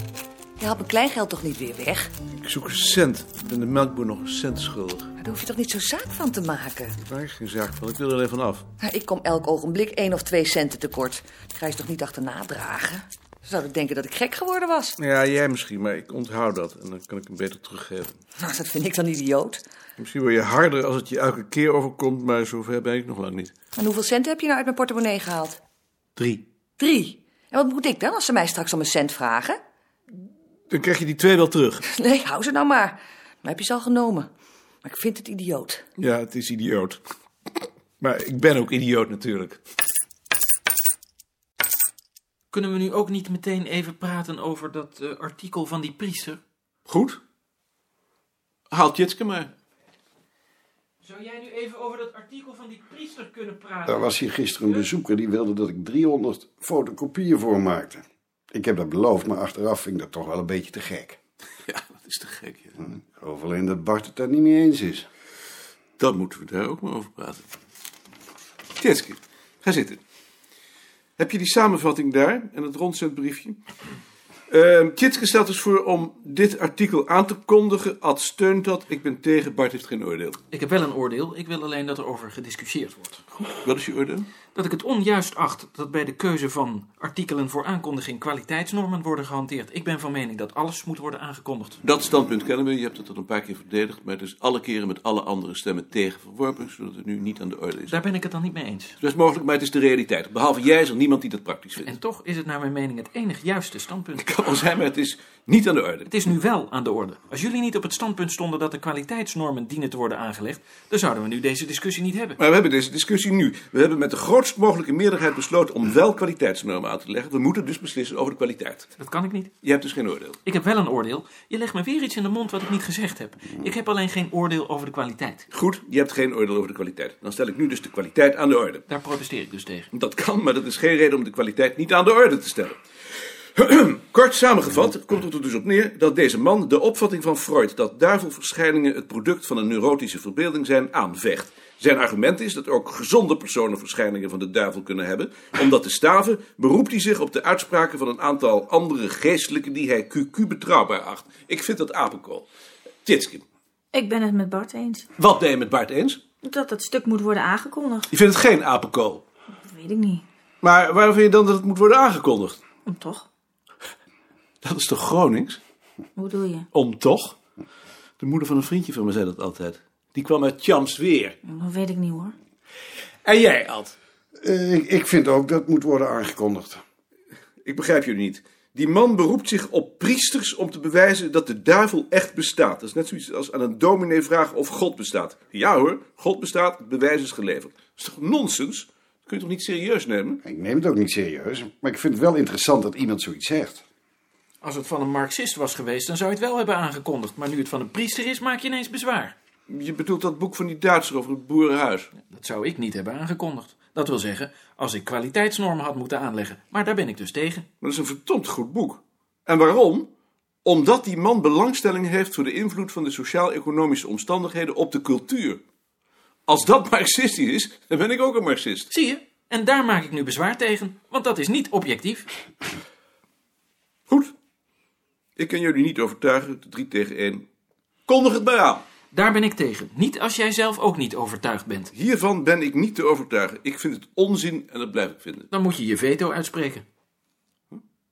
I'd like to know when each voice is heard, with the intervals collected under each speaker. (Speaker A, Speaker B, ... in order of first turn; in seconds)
Speaker A: 0.6-2.1, 5.2-7.0, 8.8-14.9, 18.4-19.6, 23.8-25.6, 26.8-29.6, 31.9-34.3, 34.8-35.8
Speaker B: 2.4-5.1, 7.0-8.7, 15.0-18.2, 20.0-23.5, 26.2-26.4, 30.7-31.8, 36.0-37.0, 38.0-39.6, 46.9-47.2, 48.7-49.5, 61.7-62.8, 66.0-67.5, 68.8-70.0, 71.2-73.6, 74.5-80.4, 83.5-84.3, 91.8-98.0, 99.0-101.9, 104.2-106.1, 112.4-118.9, 119.6-120.4, 125.5-128.8, 129.9-132.8, 133.6-152.5, 153.1-153.4, 155.2-156.2, 158.1-159.2, 160.6-162.6, 164.6-165.6, 166.7-167.4, 168.2-171.4, 173.2-174.0, 177.6-190.4, 199.7-202.1, 207.8-210.1, 210.6-215.6, 216.5-218.9, 225.4-227.5, 228.1-228.8, 231.9-235.5
Speaker C: 42.5-46.4, 51.0-54.1, 80.5-83.2, 84.5-91.8, 97.9-99.0, 101.8-104.3, 106.1-112.4, 119.0-119.5, 120.5-125.5, 128.9-129.9, 194.6-199.3, 202.2-207.7, 218.9-222.3, 229.1-231.9, 235.5-236.8
Speaker D: 53.9-61.2, 62.8-65.1, 174.4-176.8, 190.4-193.8
Speaker E: 153.9-155.1, 156.4-158.1, 159.6-160.2, 162.8-163.3, 166.2-166.7, 171.4-172.4